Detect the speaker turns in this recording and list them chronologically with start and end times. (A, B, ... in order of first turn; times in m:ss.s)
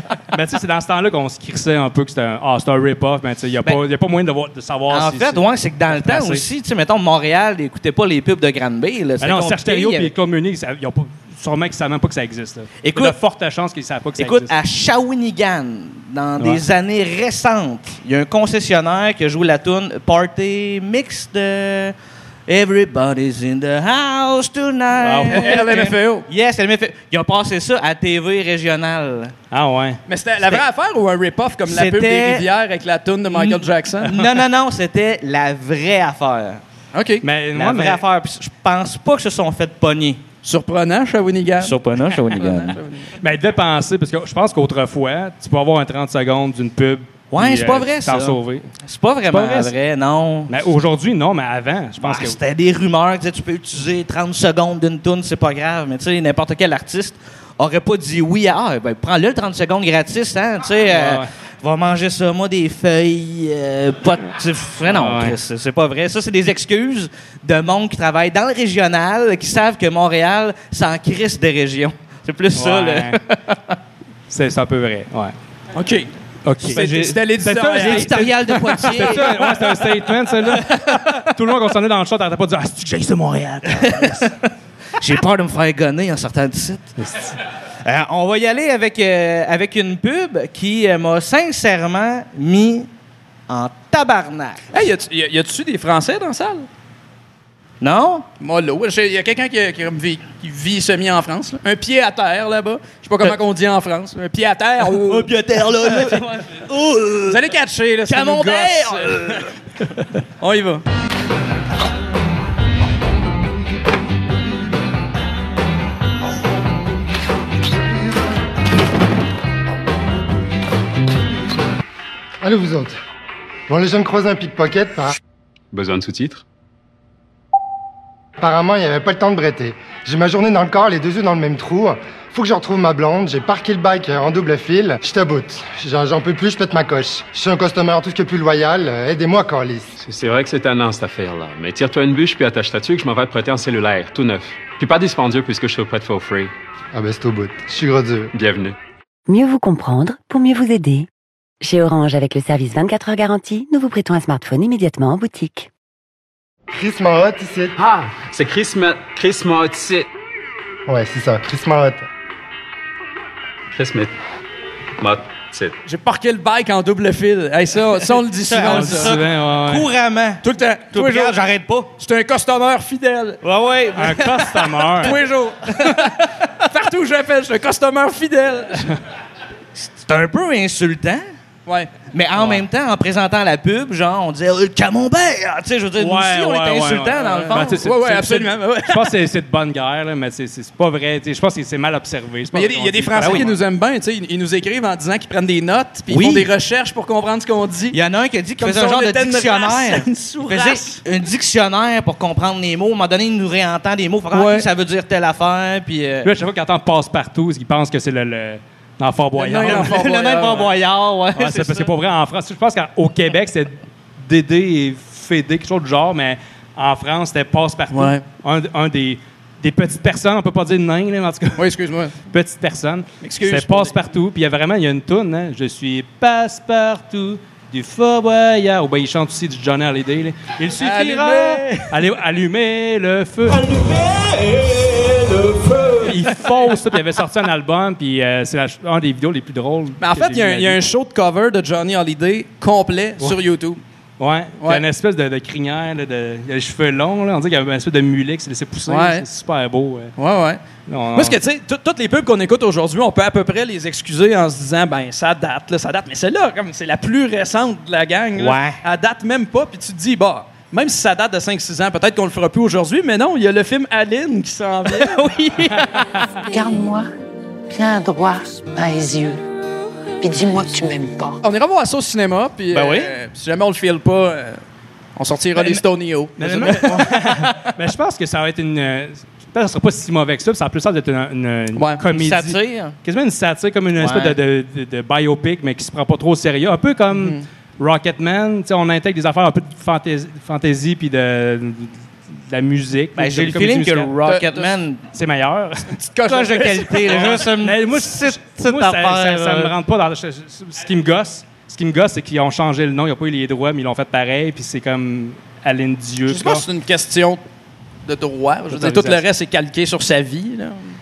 0:00.3-0:06.4 A
0:04.9-0:10.1 B
0:09.2-0:14.5 A
0:12.8-0:13.2 B
0:14.2-0:21.9 B
0:22.5-0:29.3 B
0:25.0-0:25.8 A
0:25.3-0:26.3 C
0:29.5-0:30.0 A
0:30.1-0:34.2 C
0:31.7-0:32.4 B
0:33.3-0:36.6 B
0:36.9-0:37.2 C
0:37.2-0:38.0 A
0:37.6-0:40.2 B
0:40.4-0:43.1 C
0:41.6-0:42.8 B
0:43.2-0:48.7 A
0:47.3-0:50.5 B
0:49.3-0:49.7 A
0:50.5-0:52.4 A
0:52.0-1:13.3 B
1:00.9-1:01.3 A
1:04.8-1:05.4 A
1:12.5-1:13.2 A
1:14.3-1:15.3 A
1:15.7-1:19.4 C
1:16.4-1:24.3 A
1:17.8-1:19.4 B
1:23.8-1:24.3 B
1:25.0-1:26.9 B
1:27.0-1:27.4 A
1:27.8-1:32.9 B
1:33.5-1:34.6 B
1:34.7-1:36.7 C
1:37.8-1:38.3 B
1:38.4-1:45.3 C
1:44.9-1:47.4 B
1:45.9-1:46.2 C
1:47.3-1:49.4 C
1:48.1-1:49.4 B
1:50.4-1:50.8 C
2:02.4-2:03.0 D
2:03.7-2:05.2 D
2:05.7-2:06.4 E
2:08.4-2:19.9 D
2:20.0-2:26.5 E
2:26.9-2:28.3 D
2:28.3-2:28.8 E
2:29.3-2:31.1 F
2:31.6-2:35.7 F
2:36.7-2:37.7 D
2:37.8-2:40.1 E
2:40.9-2:42.1 D
2:43.8-2:44.1 E
2:45.0-2:45.8 E
2:45.8-2:49.2 C
2:48.4-2:51.9 B
2:48.6-2:49.9 A
2:50.4-2:51.4 C
2:52.0-2:53.4 C
2:53.4-2:55.1 B
2:54.0-2:55.2 A
2:55.0-2:56.1 C
2:56.7-2:58.9 C
2:59.8-3:01.3 B
3:01.7-3:01.9 C
3:02.1-3:07.8 B
3:06.0-3:13.6 A
3:07.2-3:09.1 C
3:12.5-3:18.0 C
3:16.1-3:16.5 B
3:17.9-3:26.3 B
3:18.6-3:21.0 C
3:24.3-3:24.7 C
3:26.2-3:30.0 A
3:29.4-3:31.9 B
3:29.5-3:30.7 C
3:31.4-3:41.6 A
3:37.9-3:38.2 C
3:41.6-3:42.2 C
3:42.3-3:53.8 A
3:43.2-3:44.0 C
3:50.8-3:51.9 C
3:55.5-3:55.9 C
3:56.0-4:00.8 A
4:00.0-4:03.8 C
4:04.2-4:10.1 A
4:08.9-4:09.2 C
4:10.2-4:10.6 C
4:10.9-4:11.4 A
4:11.1-4:25.3 C
4:18.4-4:18.8 B
4:25.0-4:25.8 B
4:26.5-4:27.1 G
4:27.7-4:29.4 G
4:30.2-4:31.4 G
4:31.4-4:34.6 C
4:32.7-4:33.1 B
4:35.2-4:37.0 C
4:36.4-4:54.2 A
4:36.4-4:37.0 B
4:41.8-4:42.0 C
4:42.1-4:42.9 B
4:44.0-4:44.4 B
4:47.1-4:47.4 C
4:53.2-4:55.0 B
4:54.2-4:54.8 C
4:55.1-4:55.9 A
4:56.0-4:57.4 C
4:56.3-4:59.7 B
4:57.1-5:06.6 A
5:06.3-5:07.4 C
5:08.0-5:10.9 C
5:08.7-5:09.2 A